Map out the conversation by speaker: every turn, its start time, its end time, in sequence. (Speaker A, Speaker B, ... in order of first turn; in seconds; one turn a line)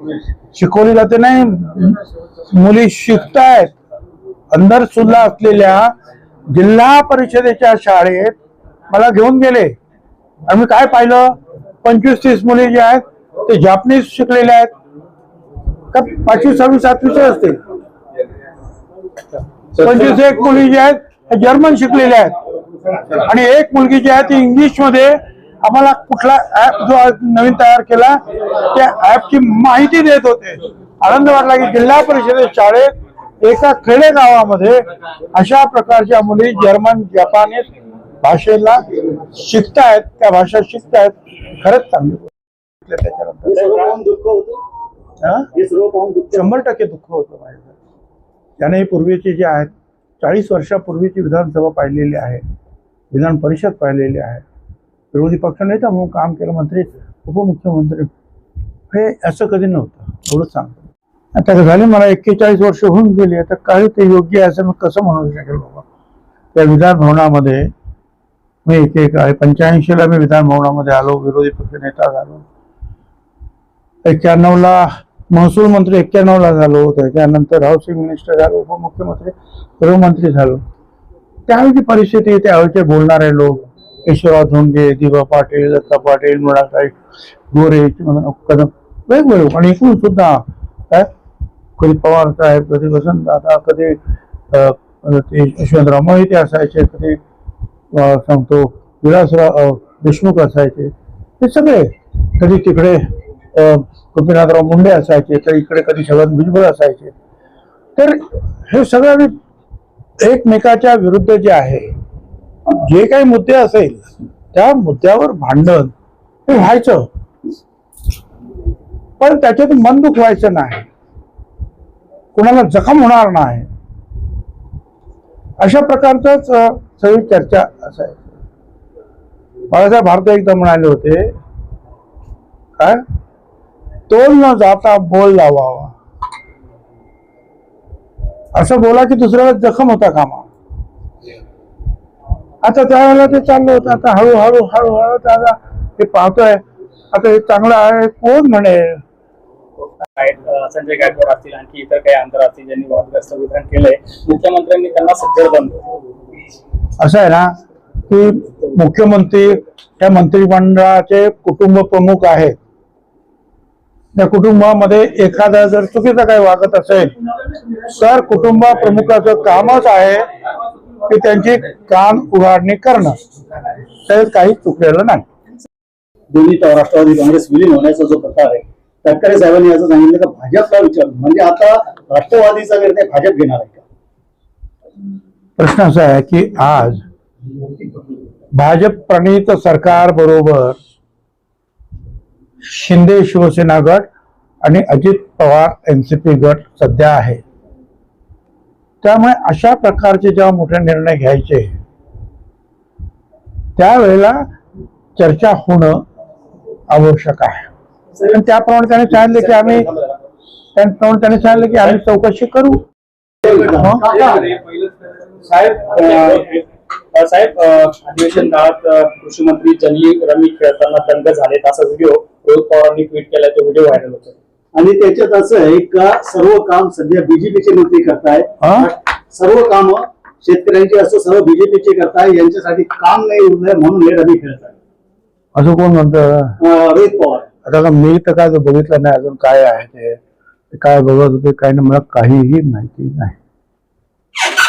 Speaker A: 0.5-3.8
Speaker A: 4.5-5.9
Speaker A: 6.5-8.3
Speaker A: 8.9-9.7
Speaker A: 10.5-14.7
Speaker A: 15.9-17.6
Speaker A: 19.8-22.3
Speaker A: 23.1-34.8
Speaker A: 35.3-37.7
Speaker A: 38.2-43.6
Speaker B: 43.5-44.6
Speaker A: 45.2-45.5
Speaker B: 45.5-46.5
Speaker A: 46.3-47.7
Speaker A: 48.6-52.4
Speaker A: 53.1-54.4
Speaker A: 55.1-58.1
Speaker A: 58.9-60.8
Speaker A: 61.3-65.8
Speaker A: 66.5-67.7
Speaker A: 68.6-72.4
Speaker A: 74.0-80.6
Speaker A: 81.5-87.0
Speaker A: 87.5-91.1
Speaker A: 91.8-94.0
Speaker A: 94.5-97.2
Speaker A: 97.9-107.1
Speaker A: 108.0-109.3
Speaker A: 110.2-111.9
Speaker A: 112.7-115.9
Speaker A: 116.5-117.0
Speaker A: 119.2-120.9
Speaker A: 122.3-123.7
Speaker A: 125.6-128.2
Speaker A: 129.7-131.3
Speaker A: 134.1-135.9
Speaker A: 138.5-140.5
Speaker A: 142.6-149.0
Speaker C: 149.8-155.9
Speaker A: 157.0-157.5
Speaker A: 158.1-162.6
Speaker A: 164.1-167.1
Speaker A: 167.9-170.2
Speaker A: 171.1-173.2
Speaker A: 174.0-175.2
Speaker B: 176.3-183.8
Speaker A: 185.6-187.0
Speaker A: 188.5-190.8
Speaker A: 192.6-194.1
Speaker A: 194.6-197.4
Speaker A: 199.0-201.8
Speaker A: 203.8-204.4
Speaker A: 205.2-206.0
Speaker A: 206.9-207.7
Speaker A: 208.2-209.9
Speaker C: 209.2-210.2
Speaker A: 210.8-212.8
Speaker B: 213.4-214.5
Speaker C: 214.2-214.6
Speaker C: 215.4-224.3
Speaker B: 224.7-234.7
Speaker A: 228.6-228.9
Speaker A: 235.5-236.6
Speaker B: 236.6-237.5
Speaker A: 237.6-240.2
Speaker A: 240.7-243.4